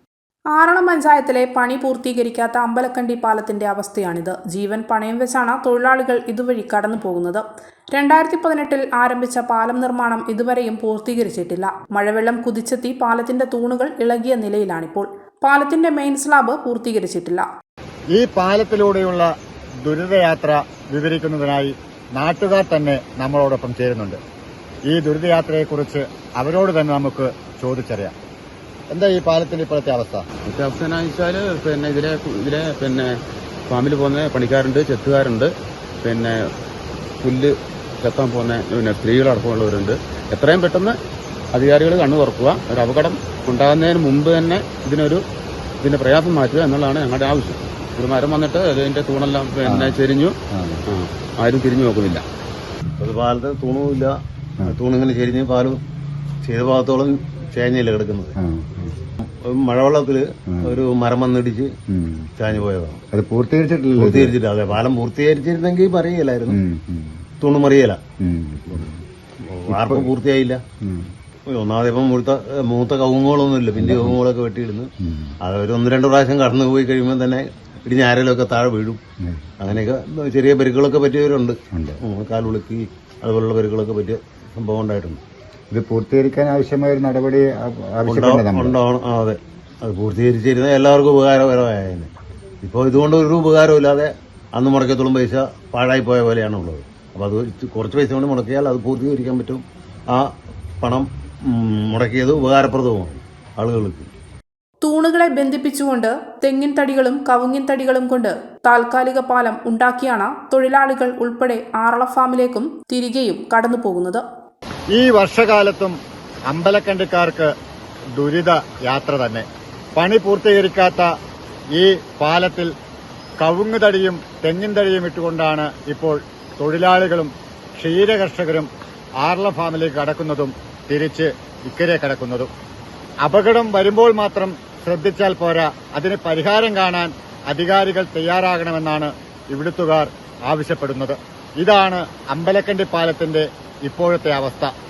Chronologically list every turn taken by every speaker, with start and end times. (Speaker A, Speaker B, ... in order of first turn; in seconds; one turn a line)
Speaker A: 0.5-17.5
Speaker B: 18.1-19.3
Speaker B: 19.8-24.2
Speaker B: 24.9-28.1
Speaker B: 28.9-30.2
Speaker C: 30.5-33.1
Speaker C: 33.7-35.5
Speaker C: 36.0-36.3
Speaker C: 37.2-41.0
Speaker C: 41.5-45.2
Speaker C: 45.8-50.3
Speaker D: 49.6-50.8
Speaker C: 50.9-52.2
Speaker E: 53.0-55.8
Speaker E: 56.4-58.4
Speaker D: 58.4-59.0
Speaker E: 59.2-61.7
Speaker D: 60.5-60.8
Speaker D: 61.9-62.3
Speaker E: 62.4-63.0
Speaker D: 63.1-64.3
Speaker E: 64.0-66.6
Speaker D: 66.5-67.1
Speaker E: 67.4-68.0
Speaker D: 68.2-69.0
Speaker E: 69.4-70.6
Speaker D: 69.7-70.1
Speaker D: 70.8-71.1
Speaker E: 71.5-74.9
Speaker D: 73.8-74.2
Speaker D: 75.0-75.3
Speaker E: 75.4-79.0
Speaker D: 79.2-79.5
Speaker E: 79.6-85.2
Speaker D: 81.7-82.0
Speaker D: 85.7-88.8
Speaker E: 88.0-92.1
Speaker E: 92.6-100.3
Speaker E: 100.8-104.1
Speaker A: 104.8-114.2
Speaker B: 114.9-116.0
Speaker B: 116.5-117.5
Speaker B: 118.2-119.5
Speaker B: 120.0-121.1
Speaker B: 121.7-122.7
Speaker B: 123.4-128.7
Speaker B: 129.2-132.5
Speaker B: 133.2-144.7